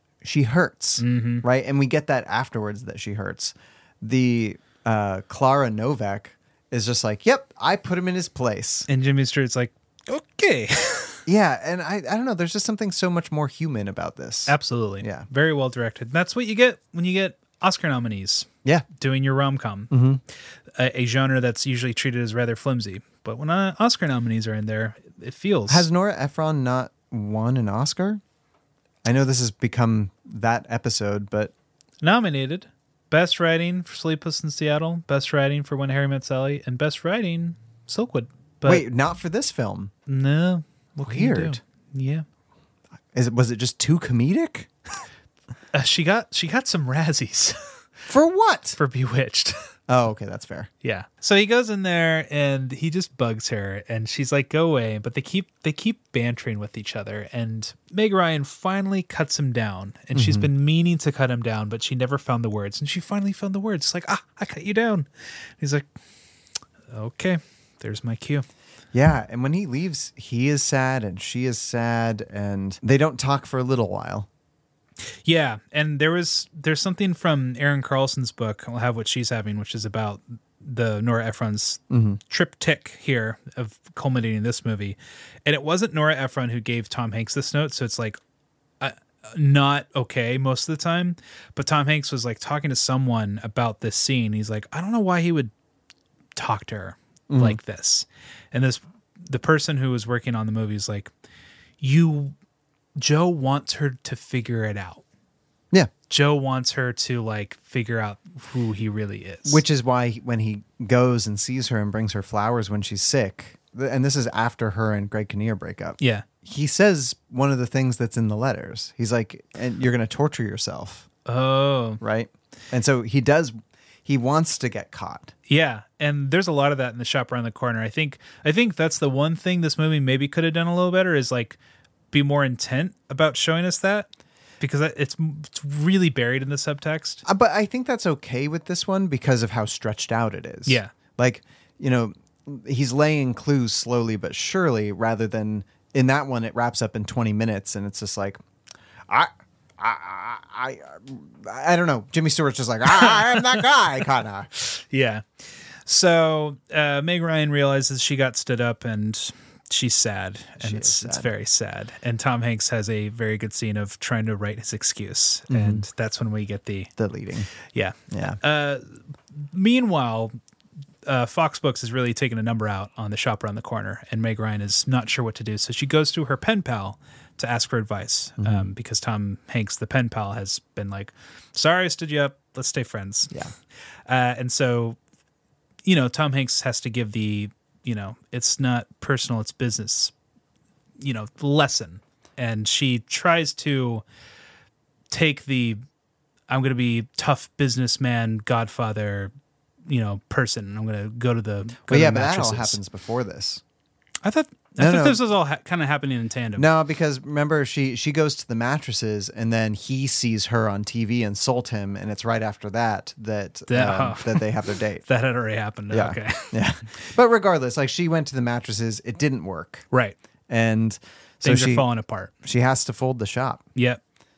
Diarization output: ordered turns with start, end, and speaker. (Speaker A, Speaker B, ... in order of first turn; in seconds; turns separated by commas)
Speaker A: 0.2-8.9, Speaker B: 1.0-1.4, Speaker B: 8.9-11.2, Speaker A: 11.2-15.3, Speaker B: 14.5-19.9, Speaker A: 19.9-20.2, Speaker B: 20.7-25.9, Speaker A: 25.7-28.2, Speaker A: 29.0-31.5, Speaker B: 32.0-38.8, Speaker A: 38.6-39.9, Speaker B: 40.1-42.2, Speaker A: 41.0-41.6, Speaker A: 43.1-44.7, Speaker B: 45.7-47.6, Speaker A: 48.1-48.8, Speaker B: 48.8-49.5, Speaker A: 49.9-50.7, Speaker B: 50.8-65.1, Speaker A: 60.1-60.5, Speaker B: 65.6-65.8, Speaker B: 66.9-68.4, Speaker A: 68.9-74.3, Speaker B: 75.2-88.2, Speaker A: 81.9-82.2, Speaker B: 88.8-95.5, Speaker B: 96.3-101.1, Speaker A: 97.3-97.6, Speaker B: 101.8-102.3, Speaker B: 103.0-105.0, Speaker B: 106.1-109.6, Speaker A: 109.5-121.1, Speaker B: 116.0-116.2, Speaker B: 121.2-122.0, Speaker A: 122.0-125.3, Speaker B: 125.5-131.6, Speaker B: 132.1-134.1, Speaker B: 134.6-137.2, Speaker A: 137.2-148.4, Speaker B: 140.7-140.9, Speaker A: 149.1-154.5, Speaker B: 154.6-155.2, Speaker B: 155.8-166.9, Speaker A: 160.6-161.3, Speaker A: 165.5-165.8, Speaker A: 167.0-167.5, Speaker B: 167.7-170.3, Speaker A: 168.1-168.4, Speaker B: 171.1-183.3, Speaker A: 178.4-178.7, Speaker B: 184.1-185.0, Speaker B: 185.8-190.1, Speaker B: 191.0-194.0, Speaker B: 195.1-195.8, Speaker B: 196.5-199.3, Speaker B: 199.9-202.8, Speaker A: 201.9-203.6, Speaker B: 204.2-206.7, Speaker A: 204.8-205.2, Speaker A: 206.6-215.0, Speaker B: 213.7-214.5, Speaker B: 215.0-216.6, Speaker A: 215.9-219.9, Speaker B: 219.9-220.2, Speaker A: 220.5-221.9, Speaker B: 221.4-222.3, Speaker A: 222.4-223.6